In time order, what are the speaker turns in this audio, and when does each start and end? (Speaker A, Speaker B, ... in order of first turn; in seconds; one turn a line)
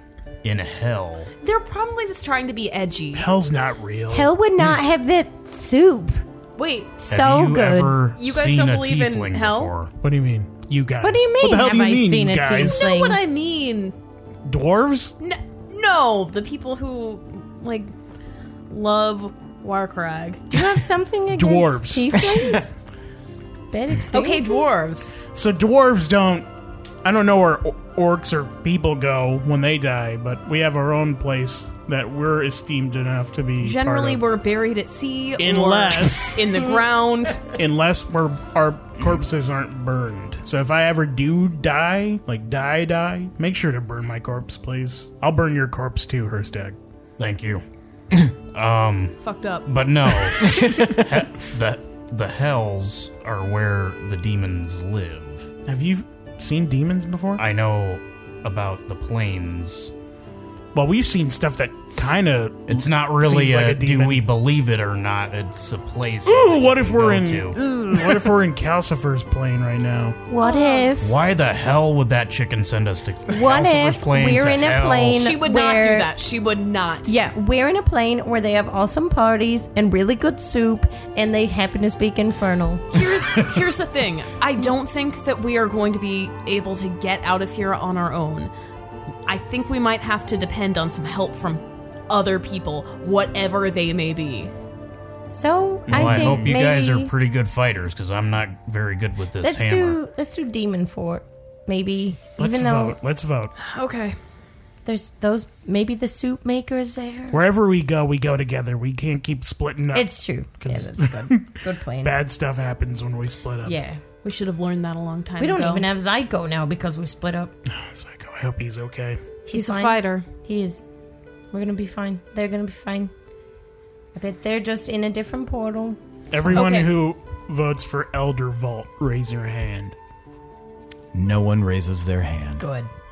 Speaker A: 0.4-1.3
Speaker B: 1.4-3.3
Speaker C: 3.1-4.3
Speaker D: 4.1-6.2
Speaker B: 6.6-7.1
Speaker D: 7.1-8.0
Speaker A: 7.1-9.9
Speaker B: 8.2-9.7
Speaker C: 10.0-12.8
Speaker D: 11.0-13.2
Speaker B: 12.6-13.9
Speaker C: 14.4-15.2
Speaker B: 15.2-17.9
Speaker B: 18.7-20.5
Speaker D: 20.5-22.8
Speaker C: 21.3-22.6
Speaker D: 23.7-24.7
Speaker B: 24.1-25.1
Speaker C: 25.3-26.5
Speaker C: 27.0-34.2
Speaker B: 33.6-37.5
Speaker C: 35.4-36.5
Speaker C: 37.5-46.8
Speaker A: 47.2-47.6
Speaker A: 48.2-55.5
Speaker B: 49.2-49.7
Speaker E: 50.5-51.0
Speaker C: 55.7-57.4
Speaker A: 57.4-59.9
Speaker C: 60.7-64.3
Speaker A: 62.7-67.6
Speaker C: 66.3-70.2
Speaker D: 70.3-71.2
Speaker B: 70.4-70.9
Speaker A: 71.0-75.3
Speaker D: 73.3-76.1
Speaker B: 75.2-77.1
Speaker D: 77.1-83.1
Speaker B: 82.9-88.5
Speaker B: 89.3-94.5
Speaker D: 95.3-97.1
Speaker C: 95.9-96.6
Speaker A: 95.9-100.0
Speaker D: 99.4-103.0
Speaker C: 102.4-103.5
Speaker B: 103.6-104.2
Speaker D: 104.9-107.4
Speaker C: 107.3-110.1
Speaker D: 109.9-112.2
Speaker C: 110.6-113.8
Speaker D: 113.6-114.0
Speaker B: 114.2-115.9
Speaker D: 115.4-117.5
Speaker C: 117.7-119.2
Speaker D: 119.5-120.8
Speaker B: 119.5-120.3
Speaker D: 121.5-123.1
Speaker D: 124.2-126.7
Speaker C: 126.3-129.9
Speaker B: 126.5-126.9
Speaker E: 131.1-132.7
Speaker D: 132.6-132.9